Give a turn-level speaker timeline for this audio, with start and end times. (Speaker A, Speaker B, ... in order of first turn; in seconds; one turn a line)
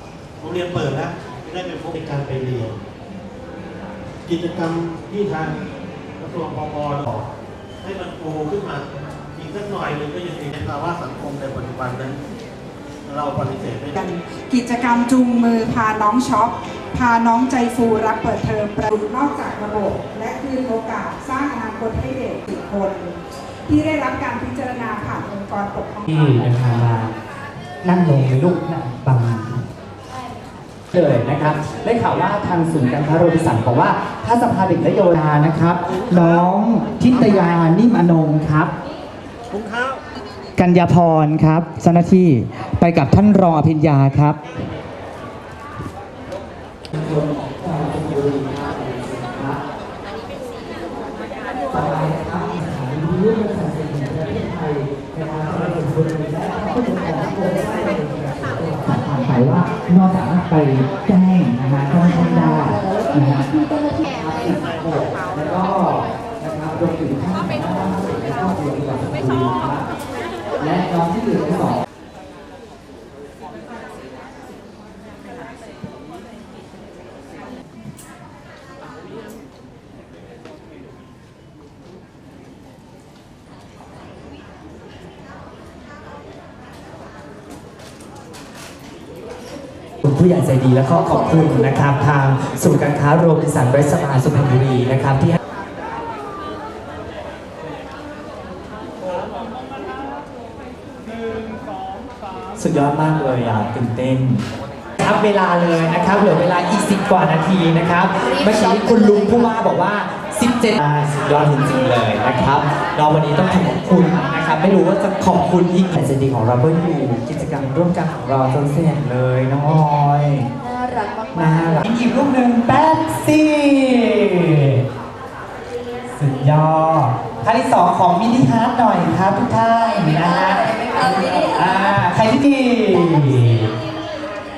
Speaker A: 0.4-2.8
Speaker A: 4.2-5.6
Speaker A: 6.2-7.3
Speaker A: 7.8-12.2
Speaker A: 13.0-14.0
Speaker B: 13.9-26.4
Speaker C: 26.1-27.1
Speaker C: 27.8-29.6
Speaker C: 30.9-38.7
Speaker A: 39.5-40.0
Speaker C: 40.6-44.4
Speaker C: 46.9-49.6
Speaker C: 51.7-63.5
Speaker D: 61.9-64.5
Speaker C: 64.0-69.9
Speaker C: 70.6-71.8
Speaker C: 90.0-95.4
Speaker D: 90.9-91.8
Speaker C: 102.5-104.4
Speaker C: 105.0-120.5
Speaker D: 108.2-109.5
Speaker D: 120.6-121.9
Speaker C: 121.3-124.8
Speaker C: 126.1-133.7
Speaker D: 130.1-132.0